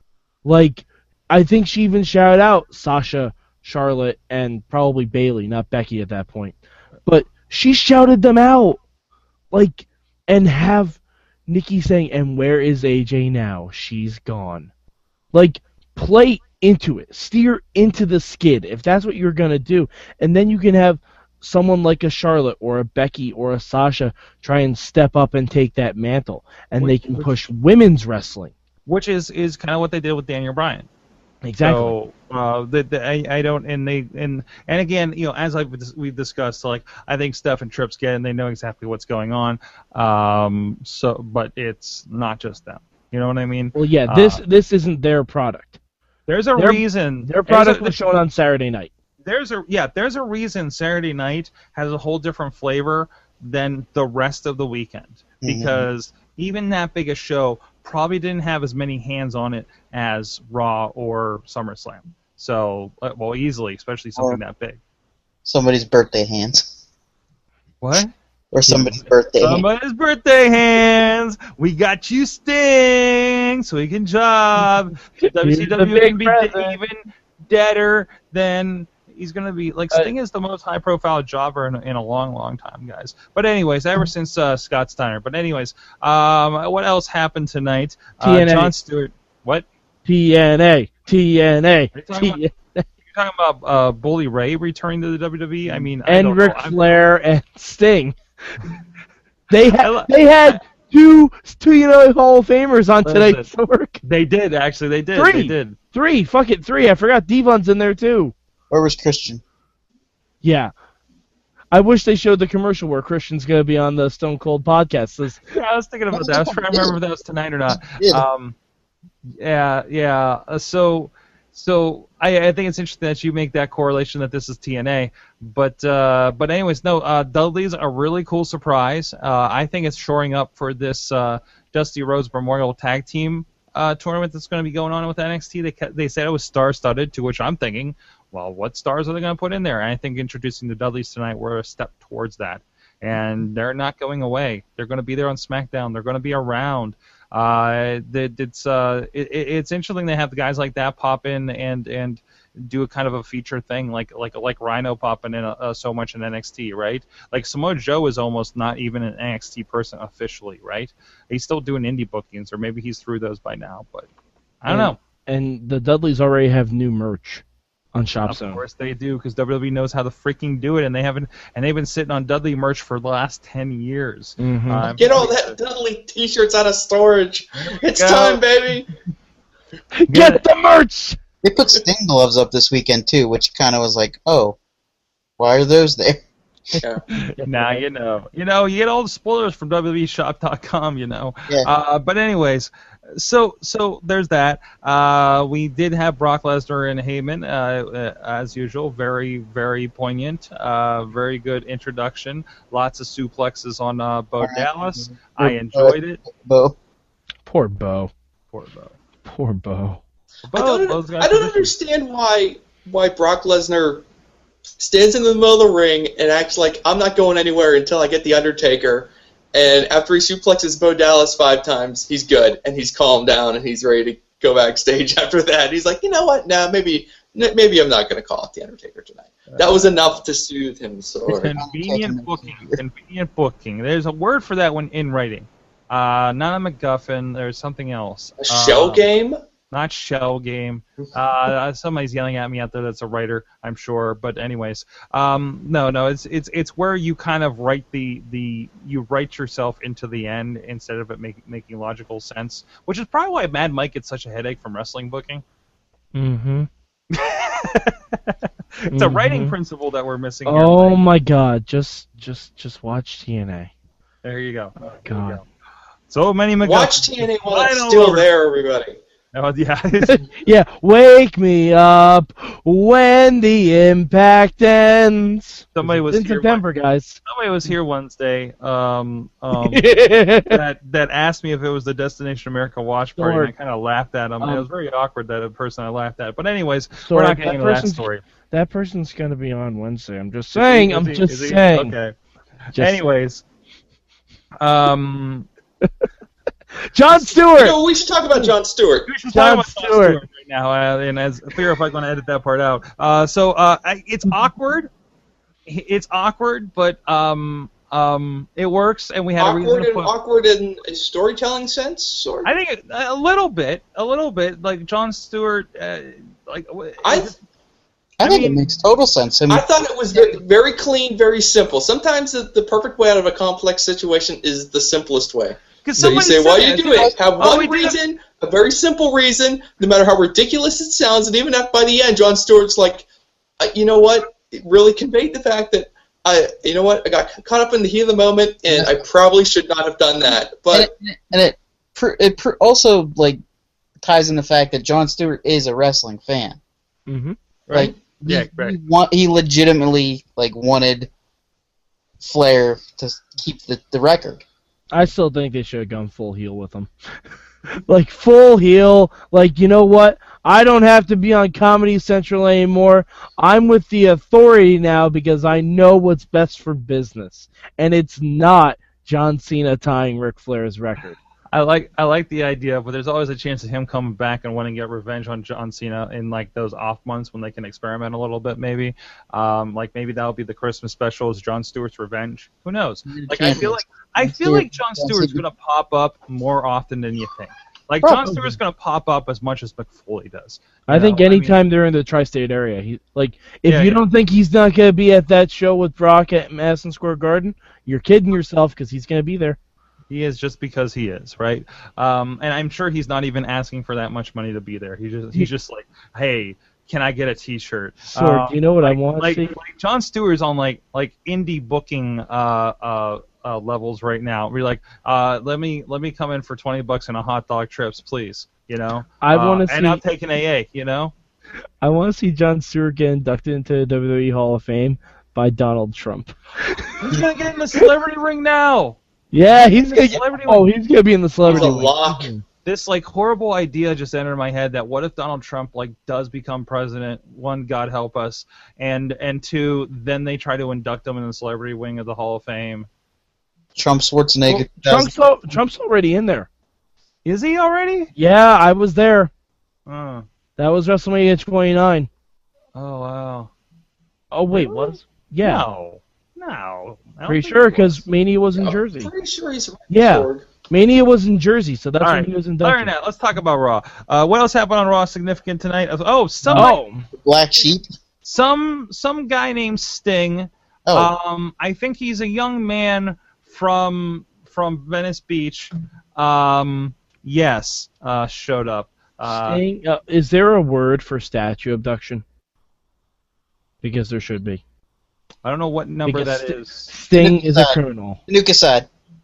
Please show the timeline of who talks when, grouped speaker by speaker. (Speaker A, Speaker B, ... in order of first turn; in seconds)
Speaker A: 0.4-8.8, 9.5-14.7, 15.3-28.5, 31.4-31.9, 43.7-45.8, 46.5-48.9, 68.7-69.0, 75.2-76.8, 88.2-88.7, 90.0-92.8, 95.7-98.6, 99.5-104.0, 105.1-108.3, 110.4-110.7, 111.7-115.4, 164.7-168.6, 174.4-175.0, 179.9-181.2, 187.1-187.8, 207.4-208.1, 209.2-210.0, 256.1-256.7, 258.9-259.5, 260.4-263.7, 265.0-265.4, 270.0-277.2, 279.6-280.6, 283.2-283.5, 284.4-284.6, 287.0-291.9, 292.7-293.0, 296.8-297.8, 299.3-300.2, 347.1-347.4, 354.9-356.9, 357.7-371.2, 390.9-399.6, 408.1-409.5, 419.2-420.0, 421.8-427.1, 429.3-432.4, 444.5-446.5, 448.1-449.3, 450.6-452.1, 454.3-455.6, 457.2-459.1, 459.9-462.9, 466.5-467.1, 479.3-482.2, 483.8-484.6, 486.0-488.2
Speaker B: 26.8-27.4, 28.9-30.9, 31.6-44.4, 46.3-48.0, 49.2-64.8, 67.8-68.1, 69.4-89.7, 91.9-92.4, 93.0-96.9, 99.7-100.6, 103.0-103.5, 104.0-105.8, 115.5-118.5, 119.4-164.1, 164.6-165.0, 168.2-175.6, 177.6-178.4, 180.1-180.4, 187.4-206.2, 208.5-209.0, 210.5-211.7, 229.5-230.2, 231.3-239.1, 239.7-255.4, 257.1-261.0, 264.2-265.4, 266.1-268.3, 269.3-270.2, 275.8-276.6, 277.2-288.2, 290.5-292.1, 292.8-293.4, 294.6-295.5, 299.1-304.9, 305.7-310.1, 312.4-317.4, 318.2-318.7, 325.8-328.0, 347.7-348.8, 371.5-391.6, 393.6-394.0, 400.1-421.1, 427.0-430.7, 432.6-442.9, 447.2-448.1, 449.9-450.2, 452.7-453.5, 454.5-458.0, 462.0-466.8, 468.2-479.6, 485.4-486.9
Speaker C: 55.4-55.9, 65.4-66.7, 68.5-69.6, 108.7-109.4, 116.1-117.0, 117.7-118.2, 181.4-184.6, 185.4-186.2, 204.4-206.8, 231.6-232.8, 318.2-320.4, 338.7-339.0, 340.7-343.4, 344.0-346.6, 347.7-351.1, 352.2-354.4, 383.1-385.4, 388.0-388.5, 443.8-445.1, 466.5-467.9, 470.9-471.1, 487.1-488.9
Speaker D: 175.0-178.9, 210.5-214.1, 214.8-231.5, 238.4-239.4, 266.6-269.0, 297.6-299.1, 309.4-312.5, 317.0-317.3, 319.5-333.1, 333.6-340.9, 431.4-432.3, 458.6-460.5